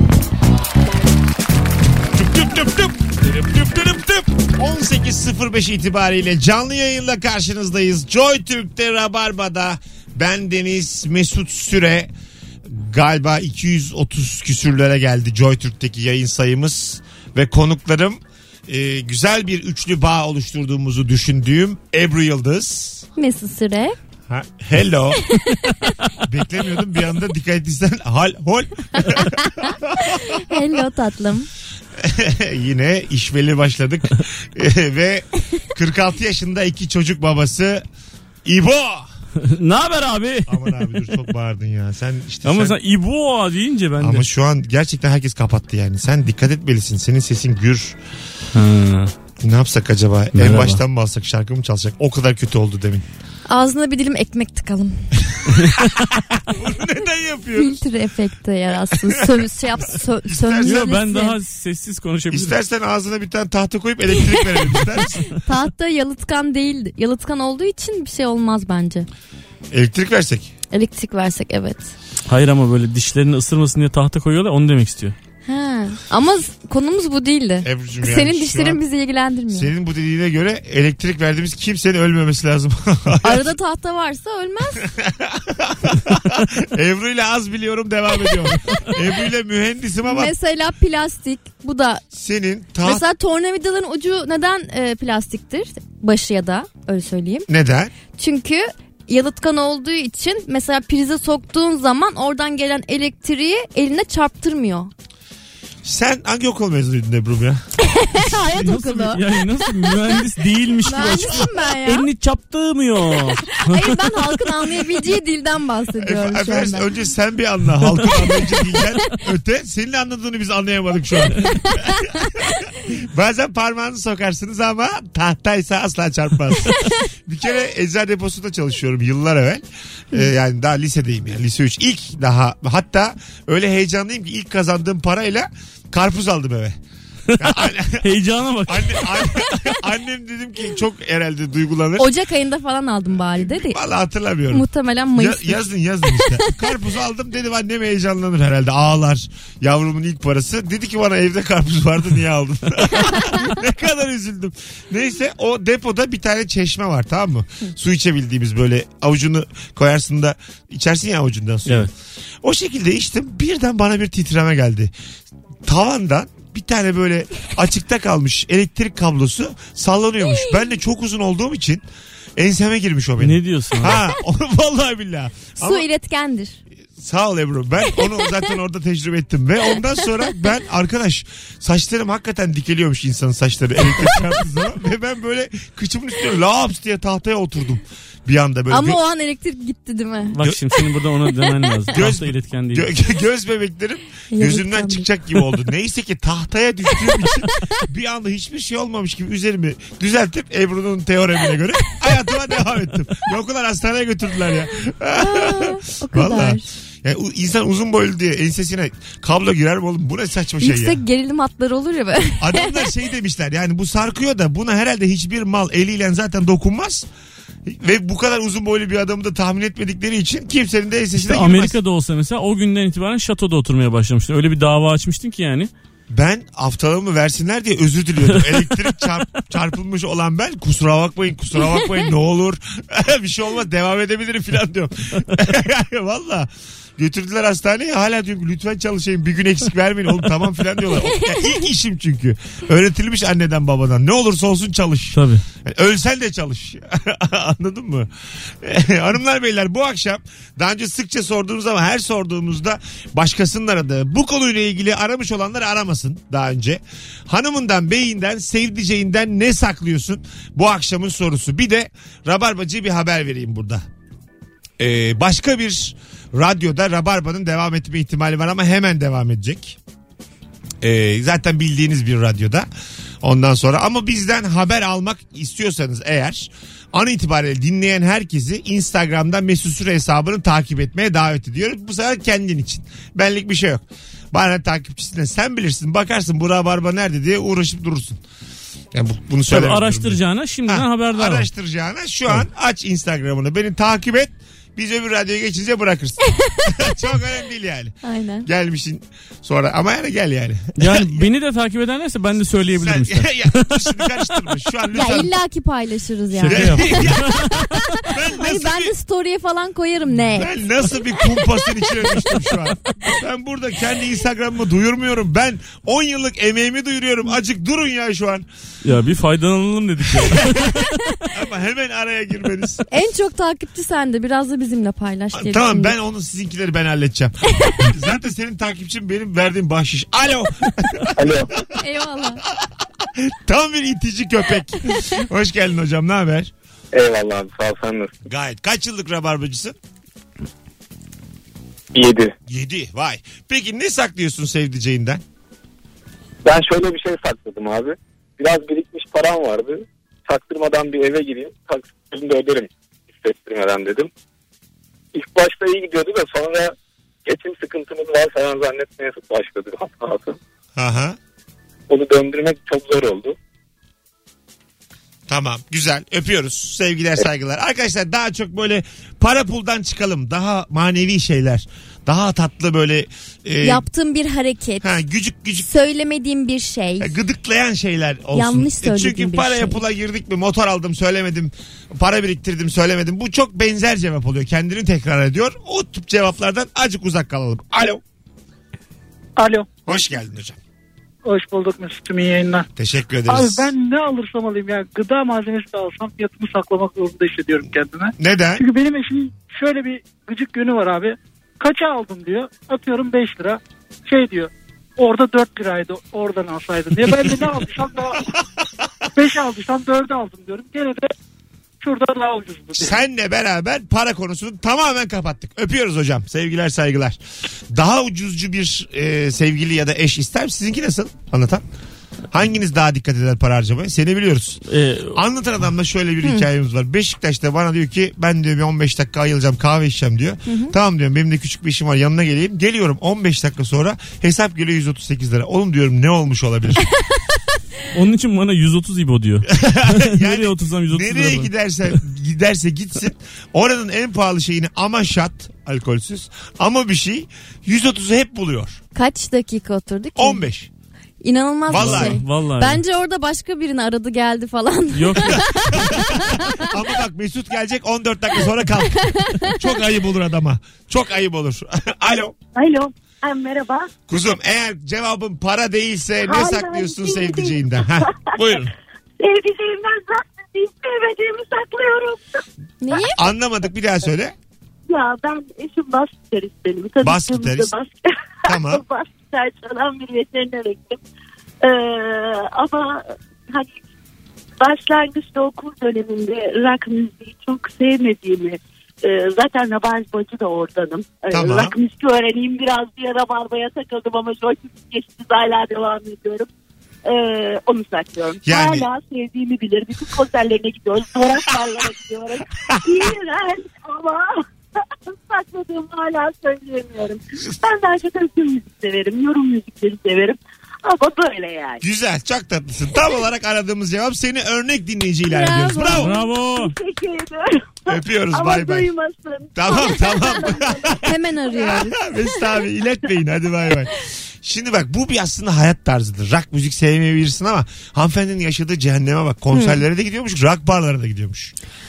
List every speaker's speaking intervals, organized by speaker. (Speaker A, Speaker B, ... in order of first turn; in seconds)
Speaker A: 2.1-12.1, 12.7-23.1, 24.3-25.2, 26.2-30.4, 32.0-37.8, 38.5-39.1, 40.5-42.7, 44.0-48.0, 49.4-53.0, 55.4-57.8, 59.0-60.9, 62.3-65.3, 69.7-70.5, 77.6-78.8, 79.5-83.5, 84.8-90.3, 92.1-93.0, 97.5-97.9, 105.8-107.6, 116.0-136.8, 137.4-138.0, 138.7-142.1, 143.3-144.7, 145.2-161.9, 162.4-164.9, 165.7-171.8, 172.4-175.8, 176.9-189.0, 191.9-211.0, 212.4-217.1, 217.7-221.8, 226.1-263.8, 264.8-269.8, 270.8-272.7, 273.2-288.2, 288.9-301.3, 302.7-305.3, 306.4-308.9, 310.4-318.4, 320.2-320.7, 321.3-322.8, 325.3-331.4, 333.1-336.5, 338.2-339.8, 342.5-345.2, 360.8-361.2, 365.3-373.8, 374.8-375.7, 377.0-388.0, 389.9-390.6, 392.8-393.7, 398.2-398.6, 412.8-417.2, 417.7-421.6, 422.3-424.6, 425.1-436.8, 439.5-448.8, 450.1-450.7, 451.7-452.2, 455.3-462.3, 464.1-468.7, 472.9-474.3, 477.0-477.7, 478.4-478.8, 491.3-491.7, 498.4-498.9, 502.7-503.1, 511.8-516.1, 517.9-518.9, 519.5-531.5
Speaker B: 23.2-24.0, 25.4-25.9, 29.0-31.5, 53.5-55.1, 57.5-61.3, 65.4-69.1, 70.7-71.9, 75.4-79.7, 83.2-84.8, 90.0-92.0, 92.8-97.5, 98.2-104.9, 107.8-109.2, 110.8-112.0, 113.5-116.9, 142.0-143.8, 144.5-146.5, 170.2-170.7, 175.6-176.6, 188.7-190.4, 191.5-191.7, 194.3-195.1, 197.1-197.3, 205.2-206.7, 210.6-212.9, 241.2-241.5, 298.0-298.5, 304.9-307.1, 308.3-312.3, 322.9-325.9, 331.8-332.4, 373.6-374.9, 375.6-377.1, 378.3-379.8, 430.5-430.7, 448.9-450.4, 451.2-456.6, 459.0-459.6, 472.8-473.2, 515.3-516.1, 521.0-522.0, 529.5-529.8
Speaker C: 39.4-41.2, 42.5-44.3, 48.5-49.1, 50.3-50.8, 55.5-55.9, 60.6-62.6, 72.3-75.1, 108.5-114.0, 137.3-139.8, 173.2-174.0, 190.3-192.9, 221.2-225.7, 245.1-245.4, 289.5-291.5, 300.8-304.1, 306.4-307.5, 318.8-321.0, 424.7-425.2, 437.9-441.5, 451.8-452.8, 454.9-455.4, 516.0-516.7
Speaker D: 331.2-331.5, 336.9-338.2, 341.9-342.3, 346.4-354.1, 355.1-360.4, 361.9-363.4
Speaker E: 389.4-390.0, 391.2-392.7, 393.3-408.2, 409.1-411.1, 411.8-413.0
Speaker F: 462.6-463.9, 466.2-468.2, 469.2-472.4, 474.9-481.0, 481.6-483.8, 484.6-496.5, 497.1-504.4, 505.1-511.8, 516.2-521.0